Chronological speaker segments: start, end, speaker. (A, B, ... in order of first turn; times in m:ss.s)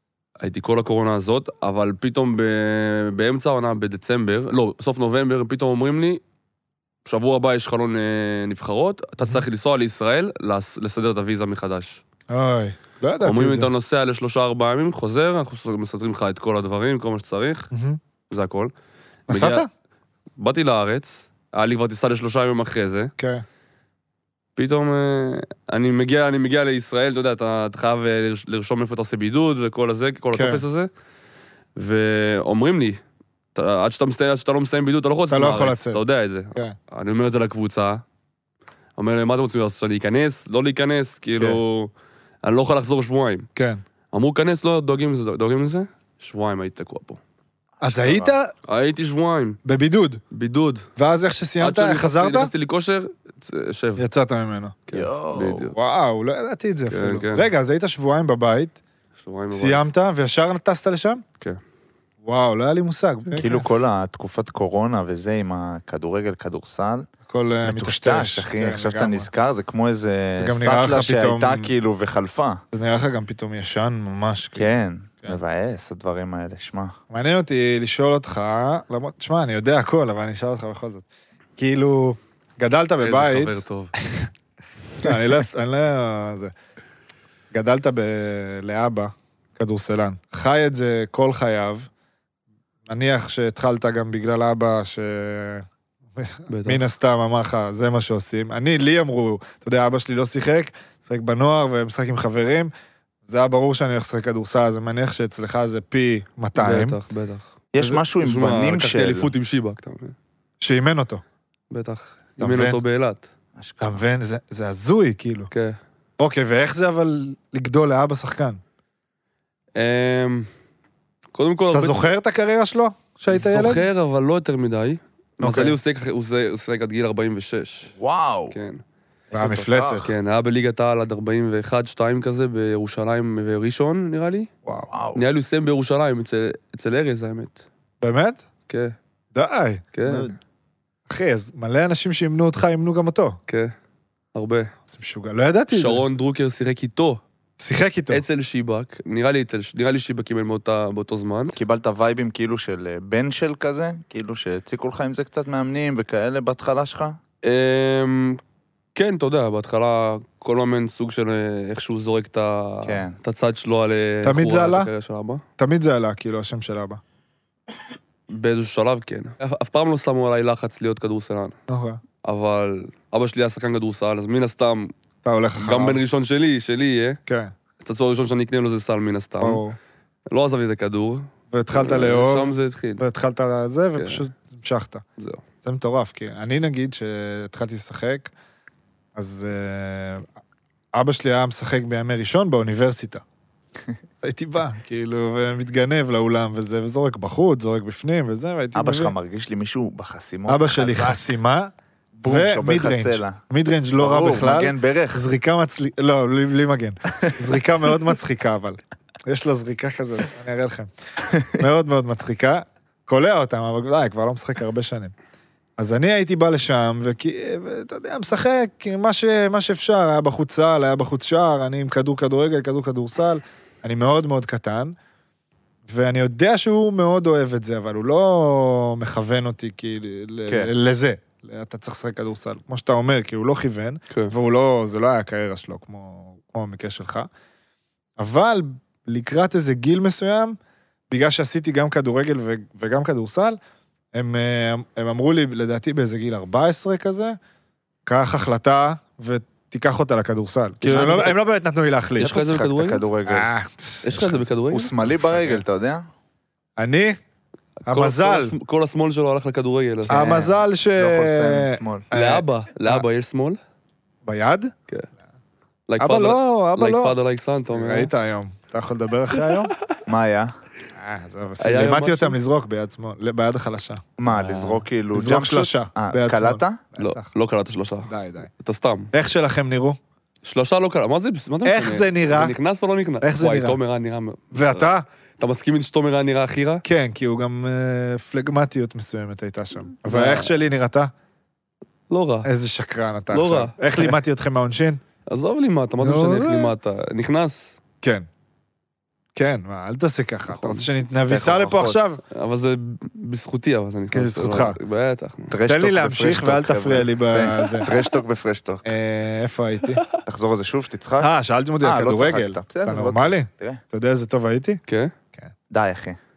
0:00.4-0:06.2 A
0:07.1-0:12.0 A
0:12.3-0:13.7 B
0:13.2-0:17.7 A
0:17.7-0:18.0 B
0:18.3-0:18.7 A
0:19.3-0:19.6 A
0:19.3-0:19.7 B
0:20.4-0:23.1 A
0:23.2-0:23.4 B
0:24.6-0:30.9 A
0:30.3-0:30.6 B
0:31.8-0:33.0 A
0:33.6-0:38.0 A
0:35.3-0:36.0 B
0:39.0-0:41.9 A
0:42.4-0:43.5 A
0:43.6-0:43.8 B
0:44.1-0:47.2 A
0:47.8-0:48.3 C
0:47.8-0:48.5 B
0:48.7-0:49.6 A
0:49.6-0:50.2 B
0:50.3-0:50.9 A
0:51.0-0:52.5 B
0:51.6-0:54.0 A
0:54.0-0:54.8 B
0:54.9-0:55.7 A
0:54.9-0:55.7 C
0:55.8-0:58.8 B
0:56.9-0:57.5 A
0:59.2-0:59.9 A
0:59.5-1:01.2 B
1:02.2-1:03.6 B
1:03.4-1:07.1 C
1:07.3-1:09.3 B
1:07.6-1:12.6 C
1:10.4-1:11.7 B
1:12.7-1:14.7 B
1:14.6-1:17.0 C
1:17.1-1:21.0 B
1:21.6-1:24.3 B
1:23.0-1:23.9 A
1:25.0-1:26.5 B
1:27.5-1:31.9 B
1:32.9-1:42.7 B
1:36.5-1:36.8 A
1:43.3-1:47.0 B
1:46.6-1:47.6 A
1:47.7-1:49.3 C
1:48.2-1:50.2 A
1:50.6-1:51.2 B
1:51.7-1:53.2 A
1:52.4-1:52.8 B
1:53.6-1:54.0 C
1:53.8-1:55.5 B
1:55.5-1:55.8 A
1:56.2-1:58.6 B
1:59.8-2:00.5 A
2:01.3-2:02.1 A
2:01.7-2:03.9 B
2:03.3-2:07.9 A
2:05.4-2:05.8 C
2:08.0-2:08.6 C
2:08.5-2:08.8 A
2:09.3-2:10.1 C
2:09.3-2:10.1 B
2:10.0-2:14.5 A
2:14.6-2:14.9 B
2:14.9-2:15.2 C
2:15.2-2:17.6 A
2:18.0-2:18.5 B
2:18.7-2:19.0 A
2:19.3-2:20.4 B
2:19.9-2:20.3 A
2:21.1-2:23.4 B
2:24.4-2:24.7 A
2:24.9-2:26.0 B
2:25.7-2:27.2 A
2:27.6-2:28.2 B
2:28.1-2:31.6 A
2:31.5-2:37.2 C
2:37.4-2:38.4 A
2:38.9-2:45.4 A
2:42.8-2:43.2 C
2:44.2-2:44.9 B
2:45.6-2:47.0 B
2:48.3-2:51.6 A
2:51.7-2:52.0 B
2:52.2-2:54.9 A
2:55.2-2:56.0 B
2:55.6-2:57.2 A
2:57.3-2:57.5 B
2:57.8-2:59.6 A
2:59.4-2:59.8 B
3:00.3-3:03.0 A
3:01.5-3:05.0 B
3:04.0-3:04.2 A
3:05.6-3:08.3 B
3:09.2-3:10.2 B
3:10.9-3:13.2 B
3:14.2-3:19.1 B
3:18.8-3:21.2 C
3:20.5-3:21.7 B
3:22.1-3:23.4 C
3:22.2-3:30.9 B
3:24.0-3:25.2 C
3:31.4-3:35.1 B
3:35.8-3:45.0 B
3:45.9-3:57.3 B
3:58.2-4:00.6 B
4:01.1-4:03.6 B
4:04.1-4:07.4 B
4:08.1-4:12.4 B
4:10.8-4:11.4 A
4:12.2-4:13.0 A
4:12.2-4:13.5 C
4:13.2-4:14.4 B
4:14.0-4:15.0 A
4:14.2-4:16.1 C
4:15.3-4:15.6 B
4:16.8-4:17.2 B
4:17.8-4:20.5 A
4:17.9-4:18.5 B
4:20.1-4:22.1 C
4:20.1-4:23.0 B
4:22.1-4:23.6 A
4:24.2-4:24.7 B
4:25.9-4:28.1 A
4:26.0-4:27.2 B
4:27.7-4:29.7 B
4:29.3-4:30.0 A
4:30.1-4:30.5 C
4:31.0-4:34.0 B
4:31.6-4:32.4 A
4:34.2-4:36.8 C
4:34.3-4:34.8 A
4:35.1-4:37.3 B
4:37.0-4:39.1 A
4:38.1-4:38.5 B
4:39.1-4:40.0 B
4:40.4-4:46.8 A
4:41.6-4:42.5 B
4:43.2-4:43.8 B
4:44.5-4:45.0 B
4:46.8-4:51.1 B
4:50.1-4:50.5 A
4:52.1-4:52.5 A
4:52.4-4:55.0 B
4:53.3-4:54.1 A
4:55.3-4:57.8 A
4:56.0-4:56.8 B
4:59.4-5:02.2 B
5:00.5-5:00.9 A
5:01.3-5:02.0 C
5:02.3-5:05.5 A
5:04.1-5:04.8 B
5:05.5-5:08.8 C
5:05.6-5:07.9 B
5:08.8-5:10.0 B
5:10.2-5:11.3 C
5:11.2-5:14.8 B
5:11.8-5:13.8 C
5:14.9-5:15.1 A
5:15.7-5:16.2 C